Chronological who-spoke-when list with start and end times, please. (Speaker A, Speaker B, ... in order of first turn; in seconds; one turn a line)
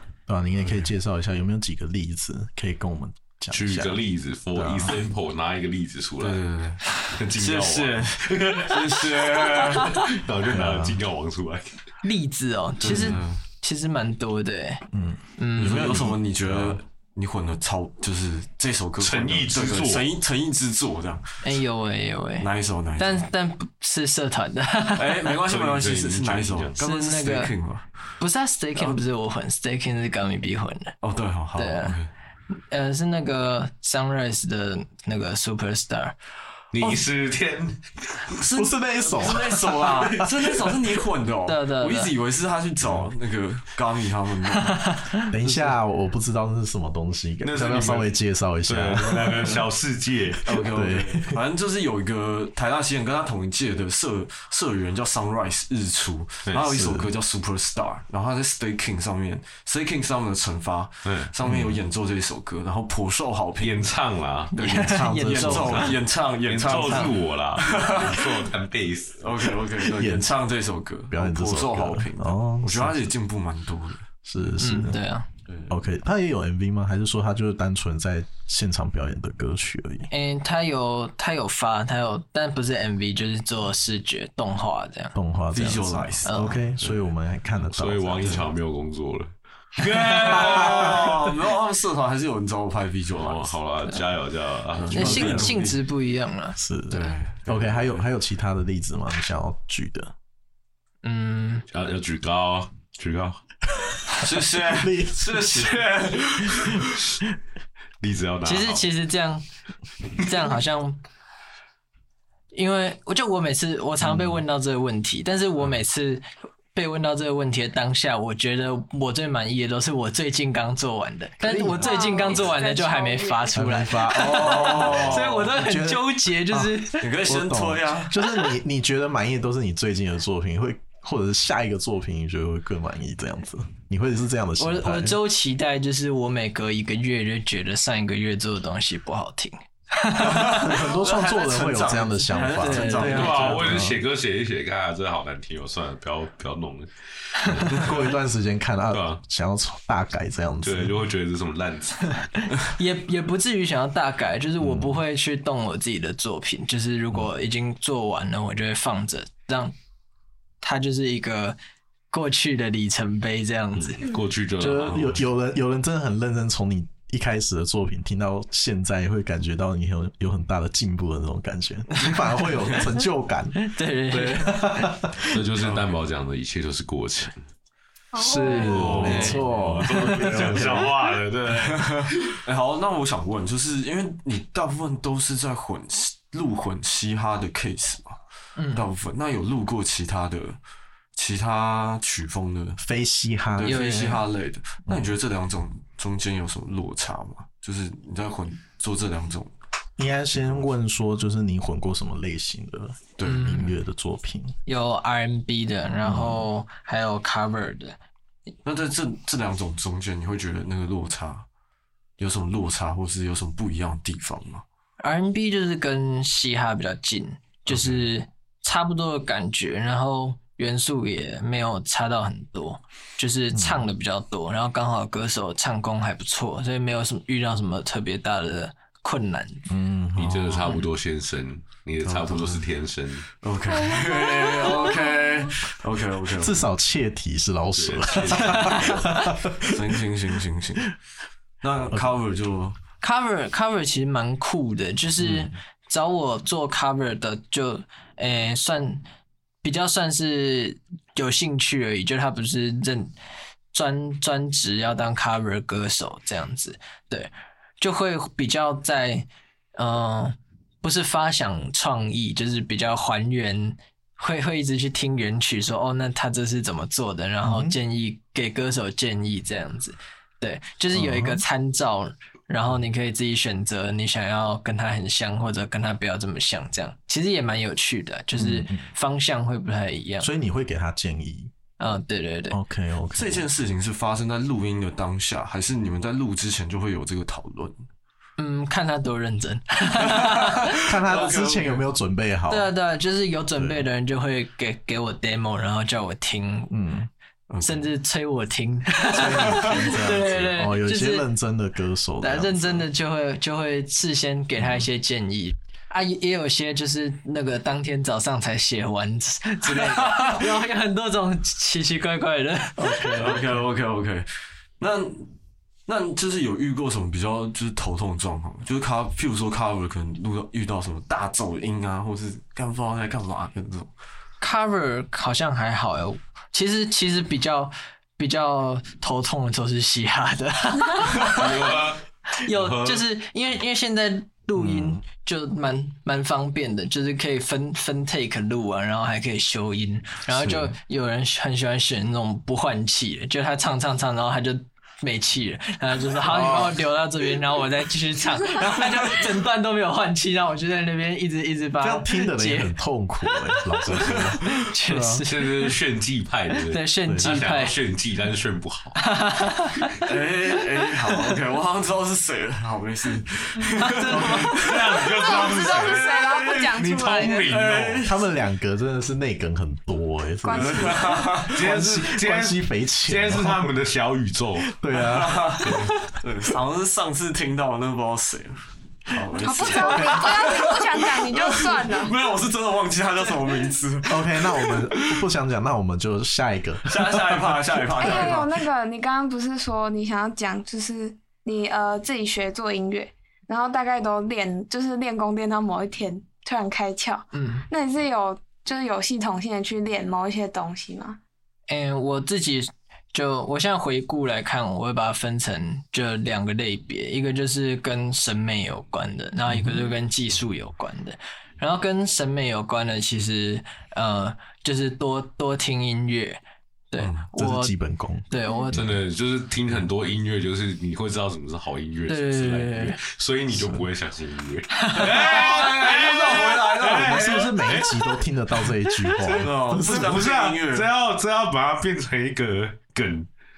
Speaker A: 0.3-4.0
Speaker B: 3.5-6.4
Speaker A: 4.5-5.0
Speaker C: 6.2-10.1
Speaker B: 6.9-11.8
Speaker A: 10.4-11.0
Speaker D: 12.0-14.8
Speaker C: 12.8-13.4
Speaker A: 14.9-16.8
Speaker D: 15.4-15.9
Speaker C: 15.6-21.4
Speaker B: 19.0-20.1
Speaker D: 21.4-25.3
Speaker C: 22.4-23.3
Speaker C: 24.9-27.9
Speaker B: 25.4-26.8
Speaker D: 26.8-27.5
Speaker D: 28.2-30.9
Speaker C: 31.0-32.1
Speaker D: 31.6-32.0
Speaker D: 32.7-36.1
Speaker B: 36.7-38.5
Speaker C: 38.4-44.9
Speaker A: 38.5-40.3
Speaker D: 41.5-42.1
Speaker D: 44.8-45.2
Speaker A: 45.3-49.6
Speaker B: 47.4-48.1
Speaker B: 48.6-50.5
Speaker C: 50.5-63.9
Speaker A: 50.5-51.2
Speaker A: 56.7-57.1
Speaker B: 61.0-61.3
Speaker A: 61.4-61.8
Speaker B: 63.6-64.6
Speaker C: 64.5-68.5
Speaker D: 64.6-66.0
Speaker A: 64.9-65.9
Speaker B: 65.5-69.2
Speaker C: 69.2-74.1
Speaker A: 69.9-70.3
Speaker A: 71.1-73.1
Speaker A: 74.2-75.0
Speaker D: 74.6-75.3
Speaker C: 75.5-75.7
Speaker A: 75.7-80.1
Speaker D: 80.1-85.2
Speaker A: 85.1-88.4
Speaker C: 85.5-87.0
Speaker D: 86.2-86.6
Speaker B: 87.7-91.3
Speaker C: 88.2-88.5
Speaker C: 90.1-93.5
Speaker A: 90.5-90.8
Speaker B: 93.1-95.5
Speaker C: 94.7-95.8
Speaker D: 94.9-96.6
Speaker A: 95.0-95.5
Speaker A: 96.5-100.1
Speaker C: 96.9-98.0
Speaker D: 101.0-101.7
Speaker B: 101.7-103.4
Speaker C: 104.2-106.3
Speaker A: 104.7-105.8
Speaker B: 106.0-106.8
Speaker B: 108.0-108.9
Speaker D: 108.4-109.4
Speaker D: 110.2-111.0
Speaker D: 112.5-127.1
Speaker A: 114.0-114.4
Speaker A: 121.4-122.3
Speaker E: 121.7-123.6
Speaker A: 123.5-135.2
Speaker C: 124.1-125.4
Speaker C: 127.0-128.1
Speaker D: 134.6-140.7
Speaker C: 140.2-143.9
Speaker A: 140.3-144.0
Speaker D: 142.6-143.5
Speaker B: 143.0-148.1
Speaker A: 147.7-151.0
Speaker B: 148.9-149.2
Speaker B: 150.6-152.4
Speaker D: 152.4-159.7
Speaker A: 154.6-155.0
Speaker D: 160.6-161.6
Speaker D: 162.1-164.0
Speaker B: 163.9-165.2
Speaker A: 164.6-175.2
Speaker D: 173.6-174.9
Speaker B: 175.3-177.4
Speaker C: 175.6-175.9
Speaker E: 178.1-178.9
Speaker A: 178.2-180.9
Speaker D: 178.2-180.5
Speaker B: 178.4-182.4
Speaker C: 181.5-188.2
Speaker D: 188.6-188.8
Speaker C: 188.7-190.6
Speaker C: 191.2-192.8
Speaker A: 192.8-193.8
Speaker C: 193.5-199.5
Speaker D: 193.6-194.2
Speaker A: 194.9-195.1
Speaker A: 200.0-204.6
Speaker C: 203.2-203.6
Speaker D: 203.2-203.7
Speaker D: 204.7-208.0
Speaker A: 206.0-206.4
Speaker C: 208.6-211.5
Speaker C: 212.2-214.6
Speaker D: 215.0-229.6
Speaker A: 223.5-223.9
Speaker A: 229.7-230.7
Speaker B: 230.2-233.3
Speaker C: 232.0-232.6
Speaker C: 233.4-236.6
Speaker E: 233.7-235.4
Speaker A: 236.4-240.0
Speaker B: 237.8-239.1
Speaker C: 239.7-240.9
Speaker C: 241.6-242.8
Speaker D: 243.0-249.0
Speaker D: 249.6-253.1
Speaker D: 253.7-280.3
Speaker A: 267.4-267.8
Speaker A: 270.9-271.4
Speaker A: 278.3-278.9
Speaker A: 280.2-281.5
Speaker D: 281.8-282.6
Speaker A: 282.5-283.4
Speaker C: 283.1-287.8
Speaker D: 288.4-290.8
Speaker C: 290.0-291.9
Speaker A: 290.8-292.7
Speaker D: 292.5-296.7
Speaker A: 293.6-293.9
Speaker A: 296.7-297.1
Speaker C: 297.5-297.9
Speaker D: 297.6-301.2
Speaker A: 299.1-302.9
Speaker D: 302.2-313.2
Speaker A: 304.6-304.8
Speaker C: 309.7-310.4
Speaker A: 312.8-313.6
Speaker C: 313.2-315.3
Speaker C: 315.9-323.9
Speaker D: 324.4-331.5
Speaker B: 331.3-333.0
Speaker D: 332.4-352.7
Speaker A: 334.6-335.0
Speaker A: 346.2-346.8
Speaker A: 351.8-355.2
Speaker D: 354.4-355.7
Speaker B: 355.2-359.0
Speaker D: 356.7-357.8
Speaker A: 357.1-357.3
Speaker D: 359.0-359.9
Speaker C: 360.1-366.8
Speaker D: 363.8-364.5
Speaker A: 364.1-364.5
Speaker B: 364.5-368.1
Speaker E: 365.0-367.6
Speaker C: 367.3-368.2
Speaker A: 368.0-373.7
Speaker E: 370.4-371.4
Speaker C: 370.5-371.6
Speaker B: 371.5-374.8
Speaker A: 374.7-375.8
Speaker C: 374.9-385.0
Speaker B: 375.6-375.9
Speaker E: 379.4-382.2
Speaker A: 379.7-380.6
Speaker A: 384.1-388.3
Speaker C: 386.9-388.5
Speaker E: 388.0-401.2
Speaker D: 397.3-397.7
Speaker D: 401.7-416.4
Speaker A: 409.5-409.8
Speaker D: 416.9-417.7
Speaker C: 417.0-417.2
Speaker A: 417.3-419.0
Speaker D: 418.3-418.8
Speaker B: 418.7-428.0
Speaker D: 422.1-423.0
Speaker A: 423.5-423.9
Speaker D: 424.8-425.1
Speaker C: 425.0-427.5
Speaker A: 426.9-430.2
Speaker B: 429.2-433.3
Speaker C: 429.3-430.9